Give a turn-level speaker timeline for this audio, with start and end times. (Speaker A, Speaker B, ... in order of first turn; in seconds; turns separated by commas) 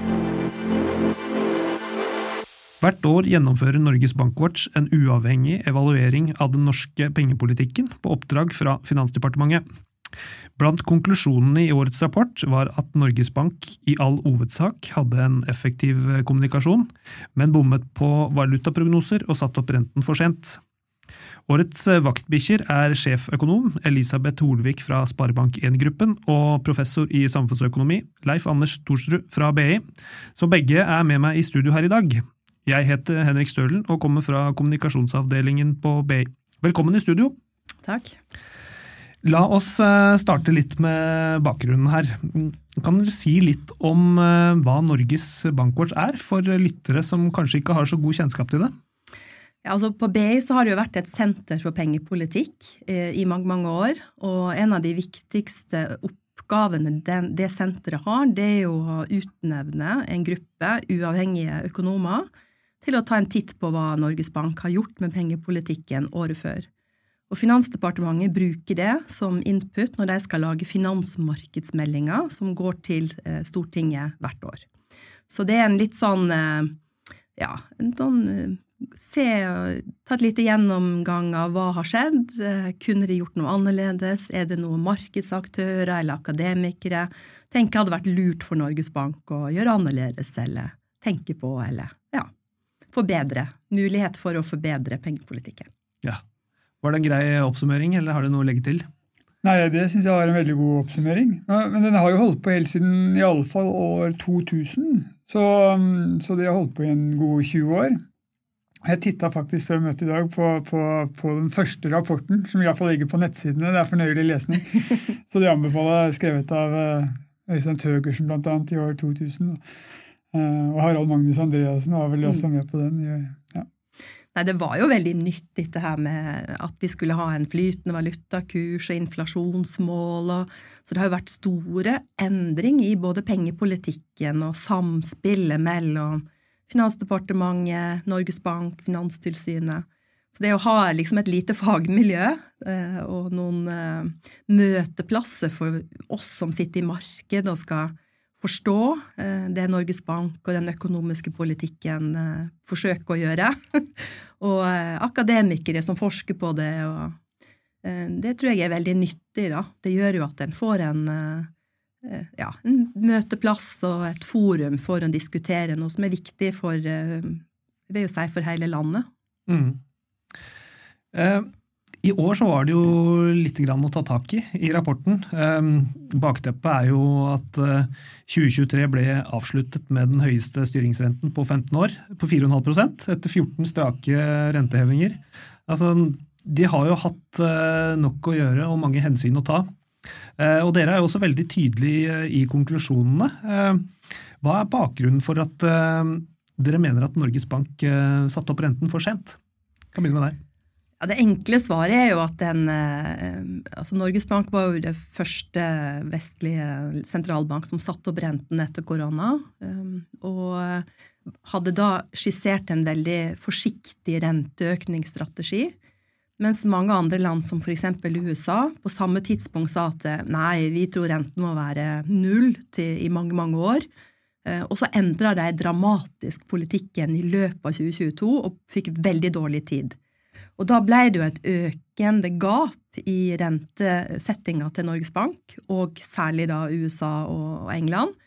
Speaker A: 2.8-9.6, Speaker A: 10.6-20.6, Speaker A: 21.5-29.8, Speaker A: 30.4-37.4, Speaker B: 37.8-38.1, Speaker A: 39.2-48.7, Speaker B: 49.6-62.2, Speaker B: 62.8-66.7, Speaker B: 67.3-74.7, Speaker B: 75.3-76.7, Speaker B: 77.3-92.3, Speaker B: 92.9-95.7, Speaker A: 96.8-98.8, Speaker C: 99.4-108.0, Speaker C: 108.8-119.6, Speaker C: 120.3-123.7, Speaker B: 124.3-157.2, Speaker B: 157.8-161.5, Speaker B: 162.0-169.1, Speaker A: 169.5-169.8, Speaker A: 171.1-171.5, Speaker A: 172.0-189.7, Speaker A: 190.4-193.9, Speaker A: 194.4-199.4, Speaker A: 199.9-200.4, Speaker B: 201.0-210.8, Speaker B: 211.4-215.7, Speaker B: 216.4-223.8, Speaker B: 224.4-229.9, Speaker B: 230.6-238.1